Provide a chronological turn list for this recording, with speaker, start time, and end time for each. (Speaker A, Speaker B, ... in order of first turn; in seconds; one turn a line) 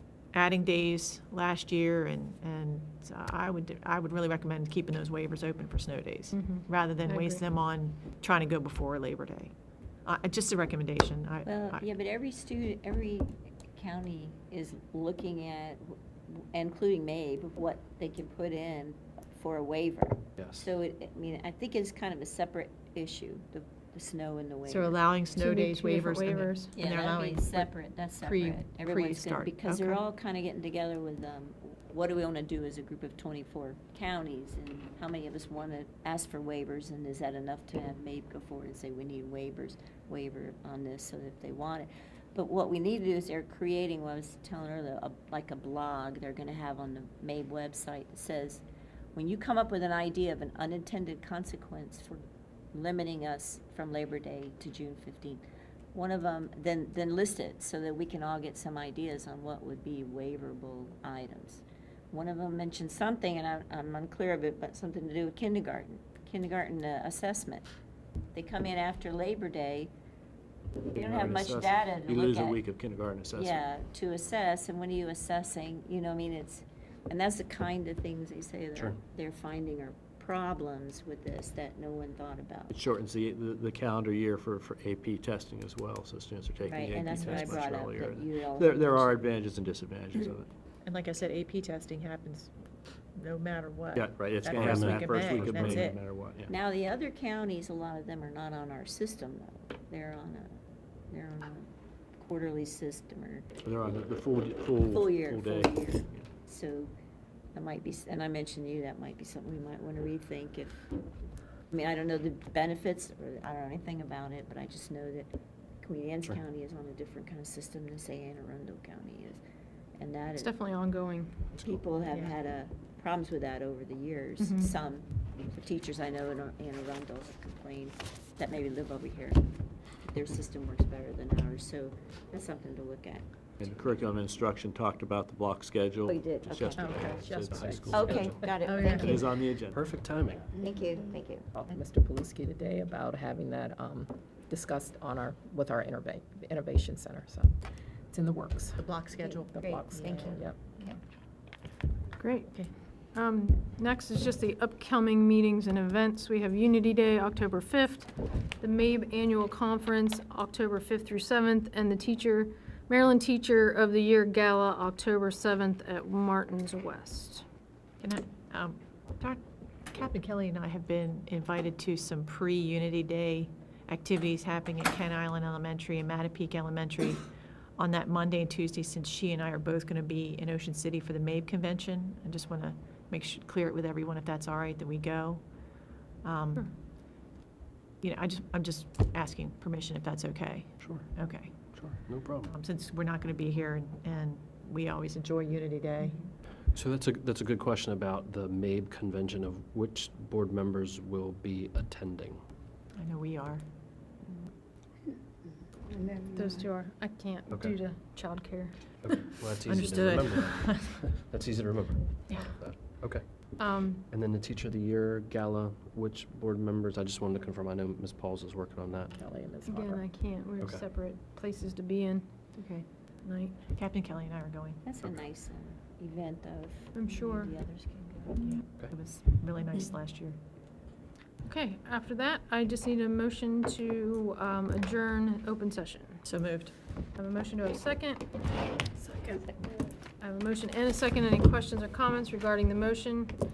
Speaker A: 0.3-9.5
Speaker B: 6.3-7.4
Speaker A: 10.0-11.9
Speaker C: 11.4-25.0
Speaker A: 24.6-27.7
Speaker B: 25.4-26.7
Speaker C: 26.7-48.6
Speaker A: 28.2-30.0
Speaker C: 49.1-67.7
Speaker C: 68.3-69.9
Speaker C: 70.9-72.6
Speaker D: 70.9-73.6
Speaker C: 73.3-82.7
Speaker D: 82.7-90.5
Speaker C: 86.7-89.1
Speaker A: 87.1-87.6
Speaker A: 90.8-92.5
Speaker A: 93.1-96.0
Speaker D: 93.9-96.5
Speaker E: 94.5-95.7
Speaker C: 96.5-100.5
Speaker C: 101.1-103.5
Speaker D: 103.6-106.3
Speaker C: 104.9-106.9
Speaker C: 107.5-110.9
Speaker C: 111.7-119.4
Speaker C: 120.0-120.5
Speaker B: 120.3-121.5
Speaker E: 121.5-121.8
Speaker C: 121.6-133.3
Speaker B: 124.4-124.7
Speaker D: 133.6-138.1
Speaker C: 136.1-137.2
Speaker F: 136.8-139.2
Speaker E: 137.5-138.5
Speaker B: 137.7-138.3
Speaker C: 137.9-139.4
Speaker D: 138.9-139.8
Speaker E: 139.7-140.5
Speaker C: 140.5-141.5
Speaker F: 141.5-147.6
Speaker F: 148.1-150.6
Speaker A: 148.8-150.3
Speaker C: 150.0-150.9
Speaker B: 152.2-167.4
Speaker A: 168.0-177.2
Speaker A: 177.8-185.7
Speaker A: 186.2-186.7
Speaker A: 188.0-196.2
Speaker E: 190.8-191.1
Speaker E: 191.8-192.5
Speaker E: 196.7-202.4
Speaker A: 202.9-203.6
Speaker B: 206.4-209.3
Speaker E: 209.0-213.4
Speaker A: 209.7-210.9
Speaker B: 213.3-214.1
Speaker E: 214.1-219.1
Speaker F: 219.1-220.1
Speaker B: 219.6-222.3
Speaker A: 222.6-222.8
Speaker B: 223.2-223.5
Speaker A: 223.7-224.8
Speaker C: 224.8-228.5
Speaker B: 226.9-227.6
Speaker A: 228.4-230.4
Speaker B: 231.4-236.2
Speaker A: 236.2-236.7
Speaker B: 237.1-238.4
Speaker B: 240.2-243.3